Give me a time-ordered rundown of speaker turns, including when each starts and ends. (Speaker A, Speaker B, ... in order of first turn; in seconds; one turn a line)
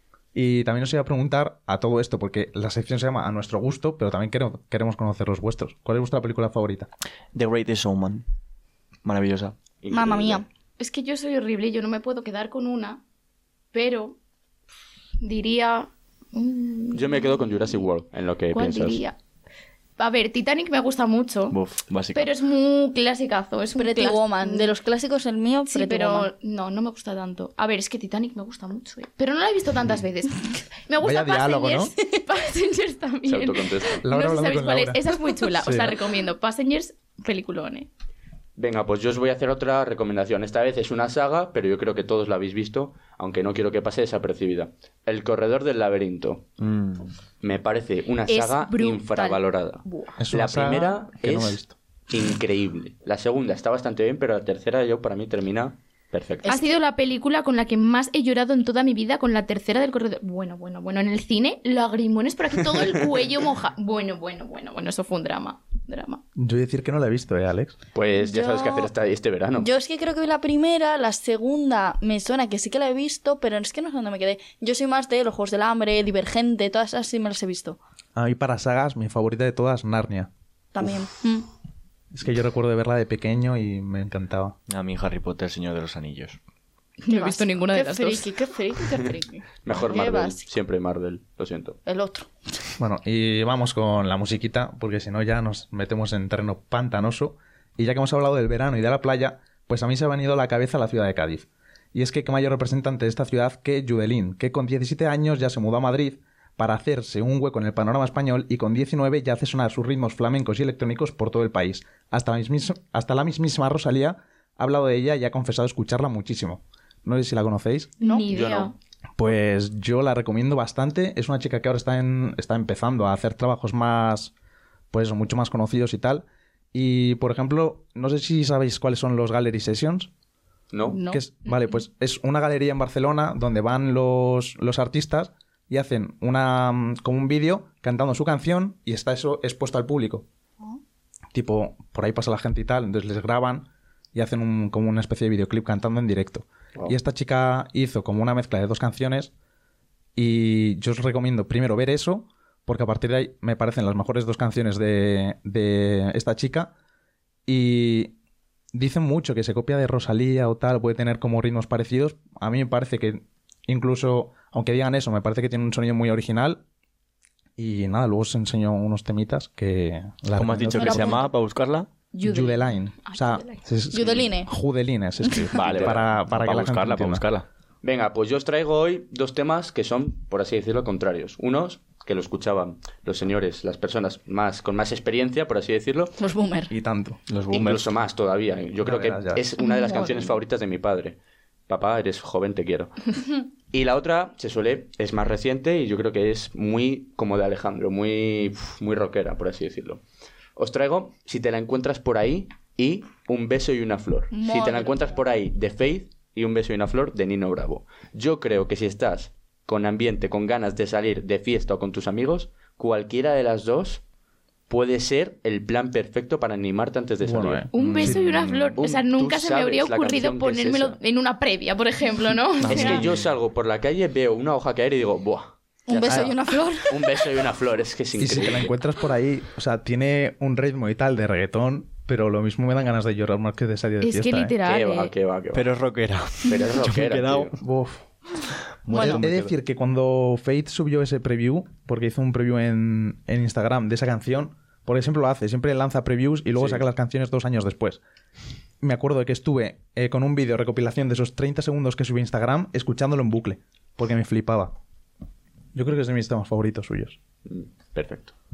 Speaker A: 0.3-6.9
Speaker B: 7.3-8.2
Speaker B: 9.0-9.6
Speaker C: 9.8-10.4
Speaker D: 9.9-10.4
Speaker E: 10.8-13.0
Speaker E: 13.7-14.2
Speaker E: 15.2-17.9
Speaker C: 16.9-19.0
Speaker E: 18.5-19.1
Speaker E: 20.0-21.6
Speaker B: 21.5-22.3
Speaker E: 22.1-24.7
Speaker D: 23.7-26.3
Speaker E: 25.7-37.9
Speaker A: 31.0-31.9
Speaker C: 33.2-34.0
Speaker A: 34.0-35.0
Speaker A: 35.6-36.0
Speaker C: 38.6-46.5
Speaker B: 46.6-47.1
Speaker C: 47.4-56.5
Speaker E: 48.3-50.1
Speaker A: 50.2-51.7
Speaker D: 56.4-56.8
Speaker E: 56.4-66.2
Speaker A: 66.4-67.7
Speaker C: 67.9-69.7
Speaker D: 68.2-68.9
Speaker D: 69.6-77.8
Speaker A: 78.2-80.3
Speaker D: 80.7-81.5
Speaker A: 82.1-84.5
Speaker B: 84.7-86.4
Speaker E: 87.0-88.3
Speaker D: 87.1-90.4
Speaker C: 89.6-91.8
Speaker D: 91.8-92.6
Speaker A: 92.8-117.9
Speaker D: 118.0-118.3
Speaker E: 118.0-118.7
Speaker C: 118.3-118.7
Speaker A: 119.2-124.3
Speaker A: 124.9-130.1
Speaker C: 130.7-131.0
Speaker D: 130.9-131.2
Speaker A: 131.1-140.2
Speaker A: 141.3-149.3
Speaker A: 150.2-156.7
Speaker A: 157.4-158.1
Speaker A: 158.7-166.6
Speaker A: 167.6-171.1
Speaker B: 170.3-171.9
Speaker D: 170.7-171.3
Speaker E: 172.1-173.6
Speaker A: 172.2-177.2
Speaker D: 173.9-174.5
Speaker B: 175.5-177.4
Speaker C: 175.6-176.0
Speaker C: 177.8-186.1
Speaker D: 186.2-186.7
Speaker A: 186.7-187.2
Speaker B: 187.3-187.9
Speaker C: 187.5-191.2
Speaker A: 188.8-189.4
Speaker E: 189.6-190.3
Speaker C: 191.7-193.2
Speaker C: 193.7-200.0
Speaker C: 200.6-214.0
Speaker D: 204.3-205.2
Speaker C: 214.7-218.1
Speaker A: 217.2-218.7
Speaker E: 217.7-223.1
Speaker B: 217.8-218.1
Speaker C: 218.7-220.9
Speaker B: 222.6-223.2
Speaker C: 222.7-228.7
Speaker D: 225.9-227.1
Speaker A: 228.2-234.6
Speaker E: 234.0-235.1
Speaker C: 234.6-235.7
Speaker B: 235.5-237.6
Speaker C: 236.4-237.6
Speaker A: 237.6-238.0
Speaker B: 238.8-239.5
Speaker A: 238.9-248.0
Speaker C: 239.0-239.2
Speaker C: 246.6-246.8
Speaker A: 248.8-254.7
Speaker A: 255.7-257.2
Speaker C: 257.4-258.3